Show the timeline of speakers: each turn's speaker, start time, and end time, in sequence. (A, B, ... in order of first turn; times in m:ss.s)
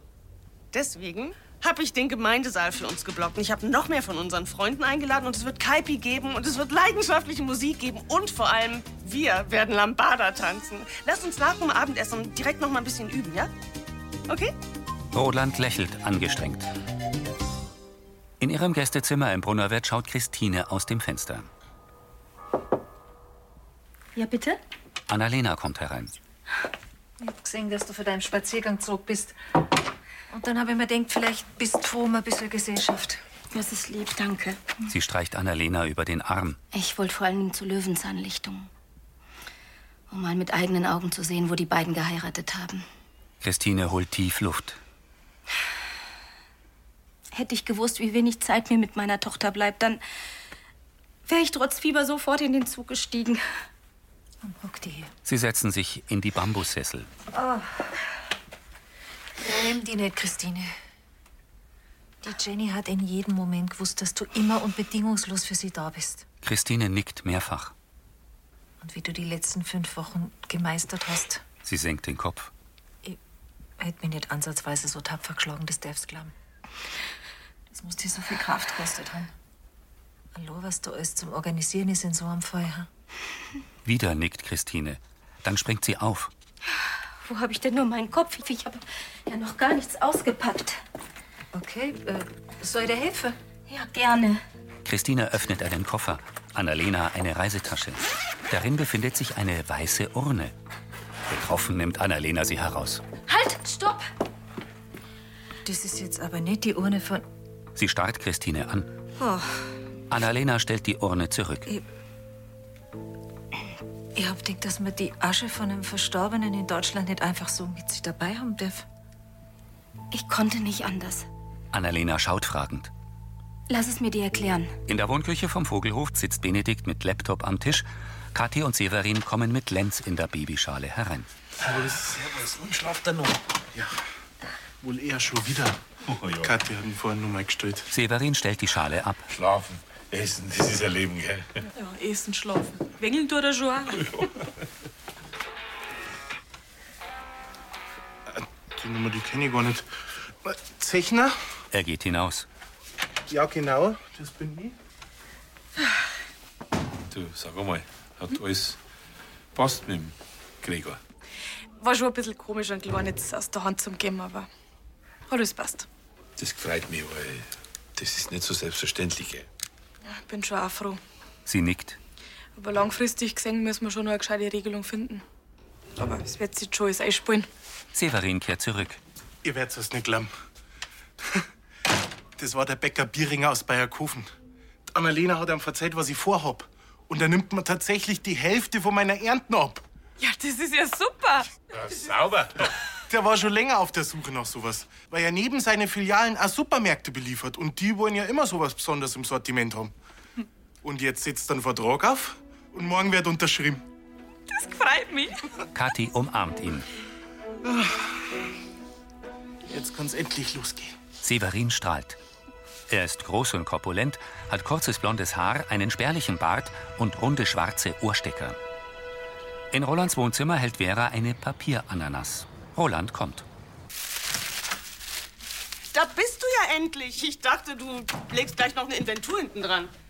0:00.7-0:13.5 A
0:14.3-0:14.5 A
0:15.1-0:16.7 B
0:18.4-0:21.5 B
0:24.2-0:24.6 C
0:25.1-0:26.1 B
0:27.2-0:29.4 D
0:30.3-0:33.2 D
0:33.5-0:34.9 C
0:34.9-0:36.6 B
0:36.7-0:38.7 C
0:40.1-0:42.8 C
0:43.4-0:44.8 B
0:47.3-0:50.0 C
0:51.2-0:53.4 C
0:54.4-0:55.1 D
0:55.2-0:57.1 B
0:57.3-0:57.9 D
0:59.4-1:00.7 D
1:02.2-1:06.2 D
1:06.4-1:07.7 B
1:08.8-1:11.4 D
1:11.6-1:12.5 B
1:13.8-1:16.3 D
1:17.7-1:19.3 D
1:20.3-1:22.9 D
1:23.8-1:26.3 B
1:27.2-1:30.8 C
1:31.5-1:33.4 D
1:33.7-1:34.4 C
1:34.8-1:40.5 B
1:41.3-1:43.0 B
1:43.3-1:44.0 C
1:45.6-1:47.2 D
1:47.8-1:48.9 B
1:49.2-1:49.7 D
1:50.1-1:51.7 B
1:54.2-1:58.8 D
2:00.1-2:01.3 C
2:01.7-2:02.9 B
2:03.7-2:04.7 C
2:04.9-2:11.3 B
2:11.6-2:14.0 E
2:14.8-2:15.8 E
2:16.1-2:16.5 F
2:16.4-2:17.9 E
2:17.9-2:19.2 B
2:19.3-2:21.6 F
2:21.7-2:24.0 G
2:28.3-2:29.9 E
2:30.4-2:31.4 E
2:31.7-2:32.5 B
2:33.3-2:34.7 E
2:37.1-2:38.8 F
2:39.5-2:41.0 F
2:41.8-2:44.5 G
2:45.3-2:45.9 G
2:46.4-2:49.4 F
2:50.0-2:51.0 G
2:51.4-2:52.0 B
2:52.6-2:55.2 G
2:56.1-2:57.5 G
2:57.9-2:59.0 B
2:59.4-3:00.3 E
3:02.4-3:04.3 E
3:04.9-3:09.8 E
3:10.2-3:11.5 G
3:11.8-3:12.7 F
3:13.1-3:19.9 E
3:20.8-3:23.8 E
3:24.5-3:25.5 G
3:25.7-3:26.9 B
3:27.6-3:28.0 E
3:29.7-3:31.0 E
3:31.2-3:32.2 B
3:32.9-3:38.6 B
3:39.7-3:43.4 B
3:45.9-3:49.9 A